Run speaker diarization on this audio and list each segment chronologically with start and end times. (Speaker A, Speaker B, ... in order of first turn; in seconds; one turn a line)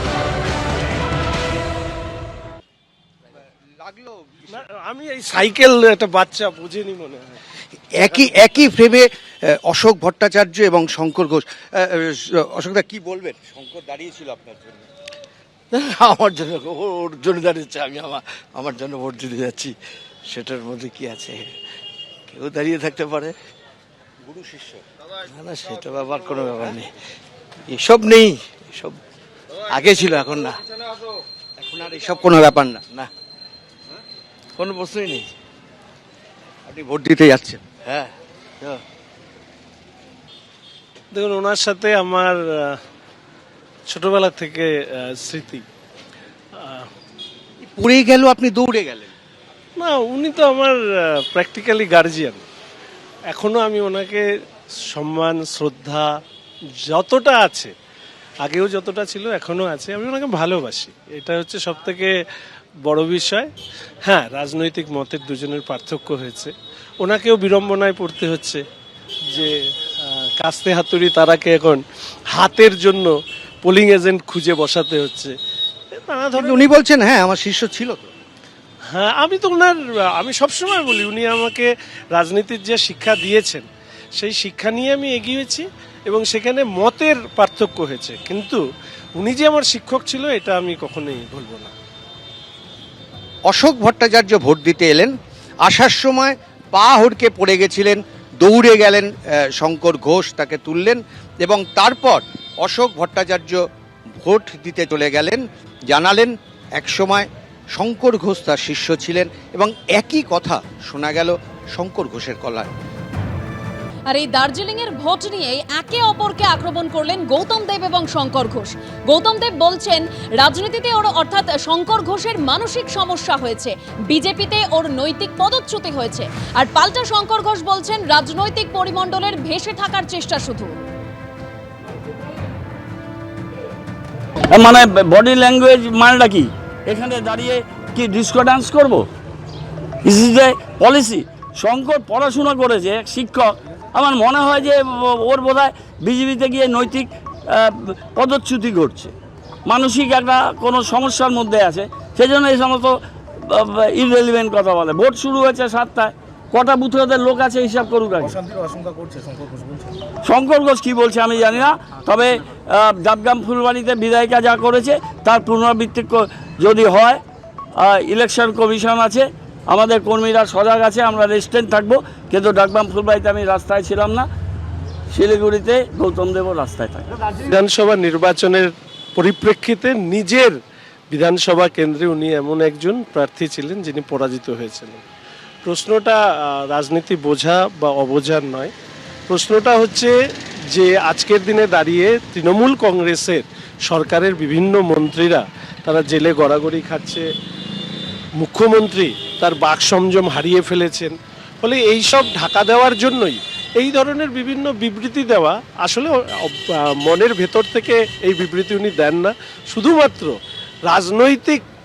Speaker A: 3.8-4.5
Speaker B: 4.5-7.3
Speaker A: 8.0-14.8
Speaker C: 15.7-19.8
Speaker C: 20.3-21.5
Speaker C: 22.3-23.4
Speaker A: 24.2-24.8
Speaker C: 25.3-26.9
Speaker C: 27.7-28.9
Speaker C: 29.7-30.6
Speaker A: 31.6-32.9
Speaker C: 34.6-35.3
Speaker A: 36.7-37.6
Speaker C: 37.8-38.1
Speaker B: 41.1-42.8
Speaker B: 43.9-45.6
Speaker B: 46.5-46.9
Speaker A: 47.6-49.1
Speaker B: 49.8-52.4
Speaker B: 53.3-54.2
Speaker B: 54.9-56.1
Speaker B: 56.8-57.7
Speaker B: 58.4-62.1
Speaker B: 62.9-63.5
Speaker B: 64.0-68.6
Speaker B: 69.3-73.1
Speaker B: 73.6-75.3
Speaker B: 76.0-76.7
Speaker A: 76.3-78.1
Speaker B: 78.9-83.7
Speaker B: 84.2-88.6
Speaker B: 89.2-91.7
Speaker A: 93.5-95.1
Speaker A: 95.6-103.6
Speaker A: 104.2-112.7
Speaker D: 114.1-130.7
Speaker E: 134.5-139.0
Speaker E: 140.0-149.1
Speaker E: 149.7-158.6
Speaker E: 160.2-167.2
Speaker E: 167.8-174.3
Speaker E: 175.1-177.1
Speaker B: 177.4-180.6
Speaker B: 181.1-185.0
Speaker B: 185.6-188.7
Speaker B: 189.3-190.1
Speaker B: 190.7-197.3
Speaker B: 198.4-210.3
Speaker B: 210.9-211.6